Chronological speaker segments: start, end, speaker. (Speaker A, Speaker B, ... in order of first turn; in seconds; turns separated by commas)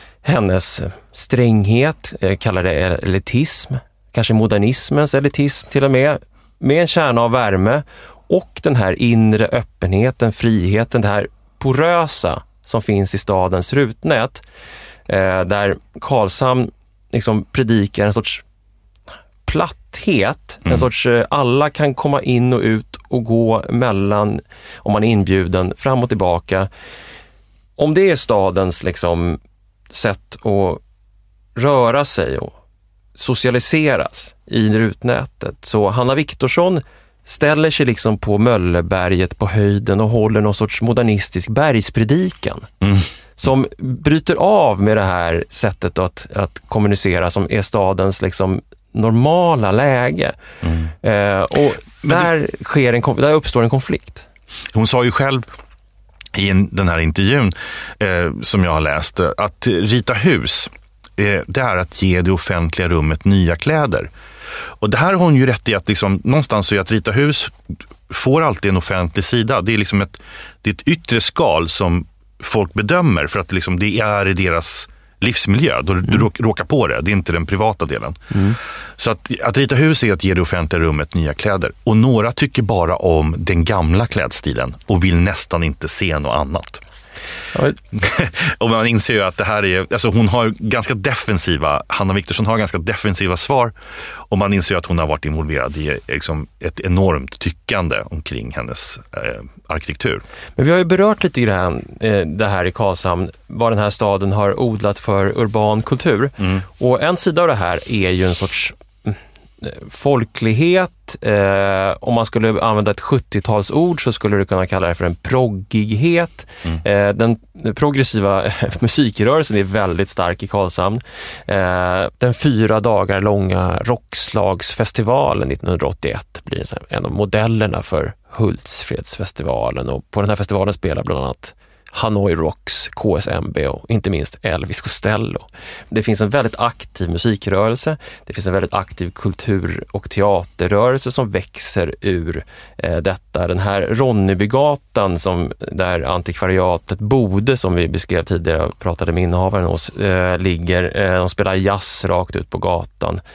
Speaker A: 0.2-14.4, Speaker A: 15.1-18.4, Speaker A: 19.5-26.7, Speaker A: 27.8-29.4, Speaker A: 29.9-30.8, Speaker A: 31.6-32.5, Speaker A: 33.1-42.7, Speaker B: 42.8-43.1, Speaker A: 43.4-50.4, Speaker B: 50.6-50.9, Speaker A: 51.0-54.3, Speaker B: 54.7-55.5, Speaker B: 56.3-64.1, Speaker B: 64.8-67.6, Speaker B: 68.1-78.3, Speaker A: 78.3-78.6, Speaker B: 79.0-86.8, Speaker A: 87.5-87.8, Speaker B: 87.9-93.8, Speaker B: 94.3-100.2, Speaker A: 100.6-153.2, Speaker B: 106.4-106.6